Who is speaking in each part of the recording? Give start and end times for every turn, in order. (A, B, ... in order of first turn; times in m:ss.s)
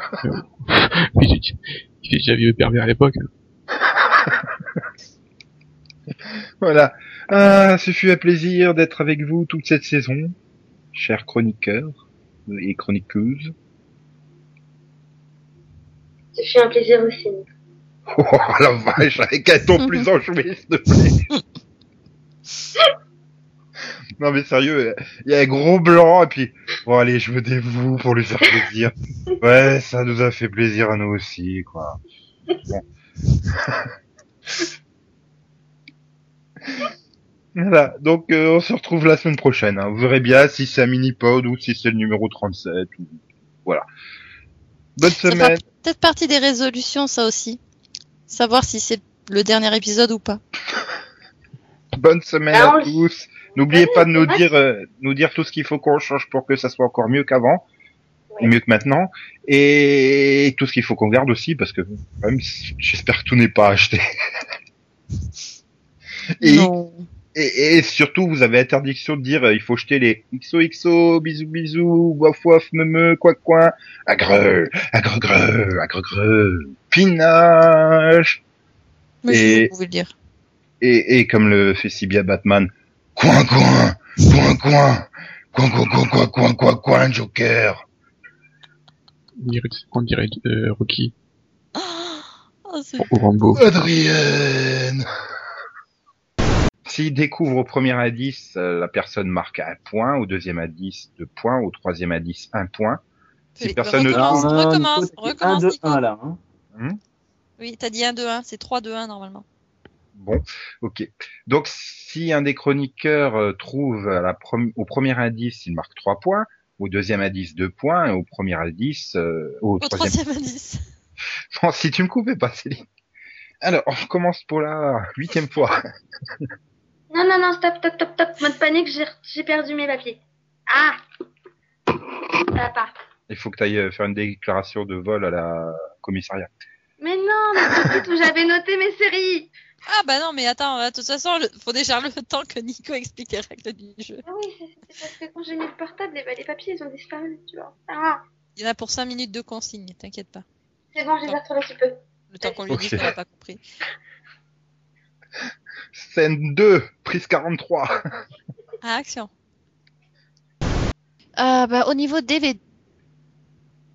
0:00.2-0:03.3 A
0:03.8-0:04.5 B
0:06.6-0:10.3 B
0:10.9-0:13.5 B
0:16.3-0:17.4 C
0:18.1-0:21.2 B
0:19.8-0:20.0 D
0:24.2-0:32.0 B
0:33.5-0:33.9 B
0:37.6-0:43.8 B
0:45.0-0:45.6 B
0:45.2-0:47.6 D
0:48.3-0:50.4 D
0:52.0-0:57.6 B
0:52.5-0:54.5 C
0:58.4-1:04.0 B
1:06.4-1:06.7 B
1:06.4-1:07.0 D
1:07.3-1:18.4 B
1:19.2-1:20.1 D
1:19.3-1:19.7 B
1:20.8-1:27.8 B
1:29.4-1:31.1 A
1:31.8-1:33.0 D
1:33.0-1:33.6 A
1:33.6-1:35.0 B
1:36.8-1:43.0 B
1:43.6-1:46.0 D
1:43.6-1:44.5 B
1:44.1-1:46.4 E
1:46.7-1:47.0 B
1:47.6-1:49.4 D
1:50.1-2:00.2 B
1:59.8-2:00.8 D
2:01.5-2:02.8 B
2:03.6-2:05.8 B
2:07.1-2:11.0 C
2:12.5-2:12.9 C
2:13.3-2:16.5 B
2:17.0-2:19.5 C
2:19.9-2:24.2 D
2:24.2-2:28.2 C
2:28.6-2:30.4 D
2:30.9-2:32.7 C
2:32.3-2:33.6 D
2:32.7-2:33.1 B
2:35.9-2:38.0 B
2:38.8-2:39.3 D
2:41.4-2:42.6 D